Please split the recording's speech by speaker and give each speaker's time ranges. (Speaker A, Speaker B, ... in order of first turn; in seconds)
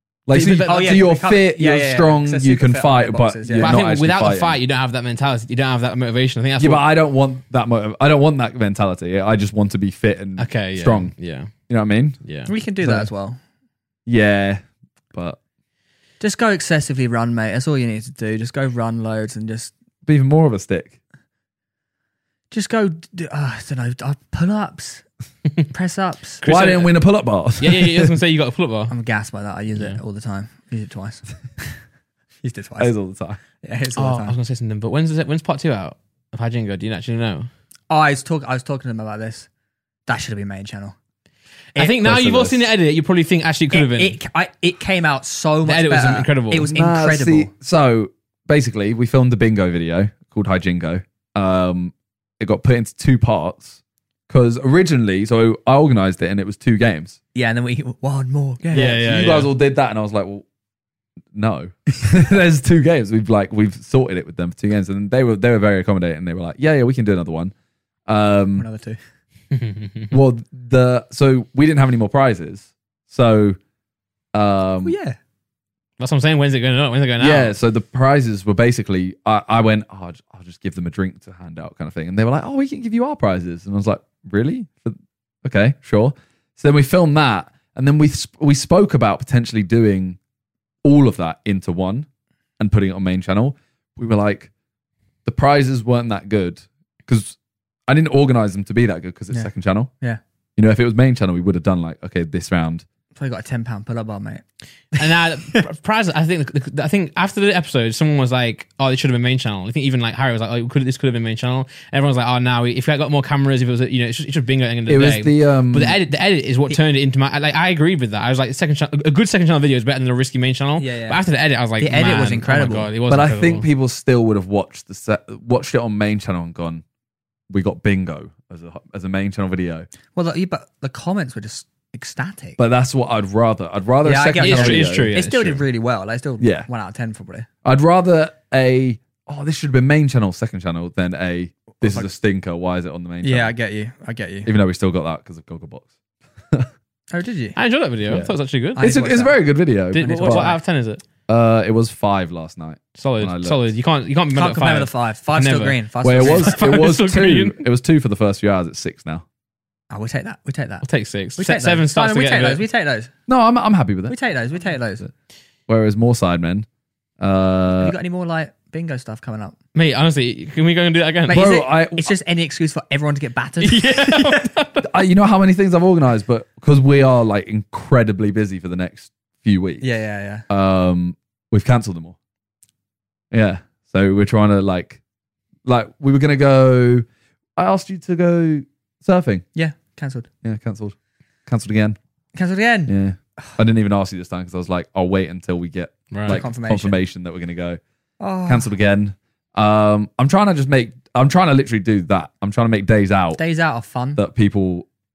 Speaker A: 0.2-4.6, 6.6-11.1, 11.7-12.2, 12.8-13.1, 14.1-14.6, 15.1-15.4, 20.1-20.9, 26.4-28.1, 32.8-33.4, 42.0-42.7, 46.7-57.2, 58.7-60.4, 61.3-67.5, 68.1-68.7, 70.1-73.6, 74.3-74.9, 77.2-90.2, 90.8-92.1, 92.6-94.5, 95.2-99.9, 100.6-102.8, 114.9-116.0, 123.1-126.8, 127.5-129.9, 132.6-135.2, 136.4-136.7, 137.6-143.5, 144.4-145.9, 148.1-150.6, 151.3-153.7, 156.0-159.2, 163.3-164.1, 165.7-166.7, 167.2-167.9, 171.3-172.1, 174.8-179.8, 180.5-182.2, 183.3-185.0, 185.6-187.1, 187.6-189.4, 190.4-190.9, 191.4-192.0, 192.9-197.8, 198.4-203.4, 204.2-204.9
Speaker B: 0.3-1.1, 3.6-6.8, 10.4-11.5, 12.2-12.5, 26.4-26.9, 27.6-28.9, 34.0-37.5, 41.7-44.1, 45.6-46.7, 58.7-59.5, 69.5-70.1, 76.0-77.5, 105.0-123.7, 134.4-135.6, 147.5-148.8, 149.9-151.0, 152.9-157.6, 160.8-162.6, 169.7-171.5, 173.6-174.9, 196.1-196.4
Speaker C: 0.7-3.8, 12.5-13.4, 16.2-19.7, 22.5-25.0, 25.7-26.4, 28.9-31.7, 32.4-32.9, 33.6-34.4, 37.9-39.5, 40.1-40.9, 43.7-47.5, 57.3-59.0, 68.5-69.0, 74.8-75.2, 103.2-104.4, 120.8-121.2, 121.8-122.9, 130.1-132.6, 134.0-137.5, 141.7-142.1, 143.2-144.5, 147.1-147.6, 148.8-149.4, 150.1-150.5, 154.3-156.6, 159.9-160.8, 161.4-163.1, 164.1-165.0, 167.8-169.6, 171.3-174.5, 179.8-180.4, 189.5-190.3, 192.3-193.6, 196.3-196.9, 198.2-198.7, 203.4-204.2